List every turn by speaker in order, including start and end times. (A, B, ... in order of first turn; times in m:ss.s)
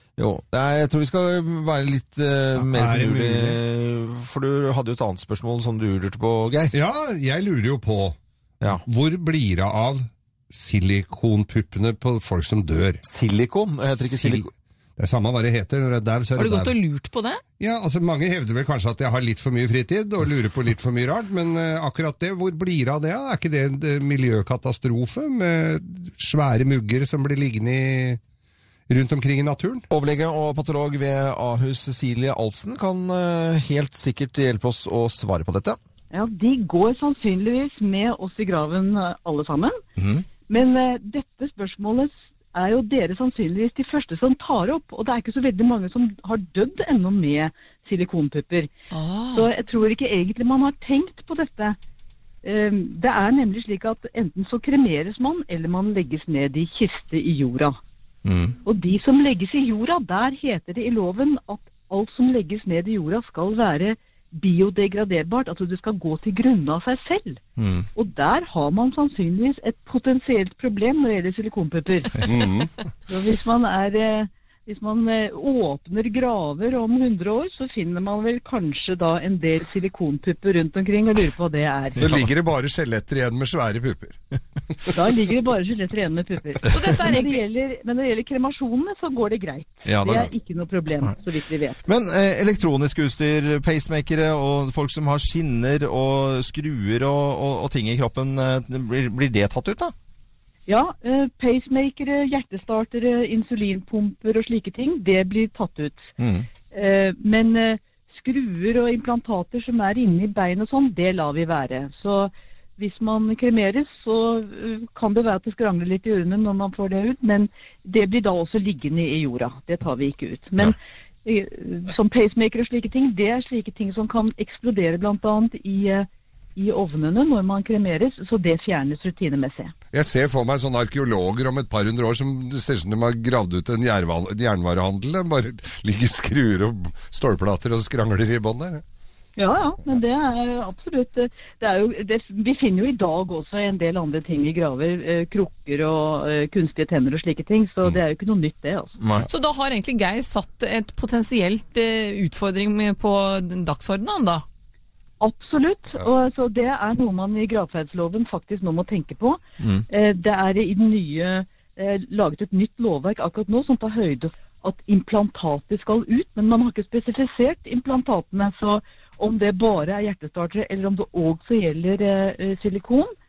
0:00.2-0:06.7 A
0:02.6-0:03.6 B
0:06.7-0:08.2 B
0:08.8-0:13.0 B
0:13.0-0:14.5 A
0:14.0-0:16.7 B
0:16.4-0:17.4 C
0:17.6-0:28.2 B
0:28.9-0:29.8 B
0:29.9-0:35.8 A
0:36.1-0:39.8 D
0:40.0-0:40.2 A
0:40.5-0:48.7 D
0:48.9-0:49.5 C
0:49.3-0:51.8 D
0:52.4-0:57.8 D
0:58.2-0:58.5 A
0:58.6-1:07.4 D
1:07.6-1:07.9 A
1:08.0-1:12.3 D
1:12.2-1:12.7 B
1:13.1-1:22.0 D
1:22.0-1:22.3 A
1:22.0-1:24.2 B
1:24.9-1:31.8 D
1:26.7-1:27.4 C
1:29.8-1:30.3 A
1:31.9-1:39.9 A
1:40.7-1:46.1 D
1:46.2-1:46.5 A
1:46.7-2:09.7 D
2:09.9-2:18.8 B
2:19.4-2:28.9 D
2:29.0-2:29.3 A
2:29.3-2:34.4 C
2:35.2-2:53.1 D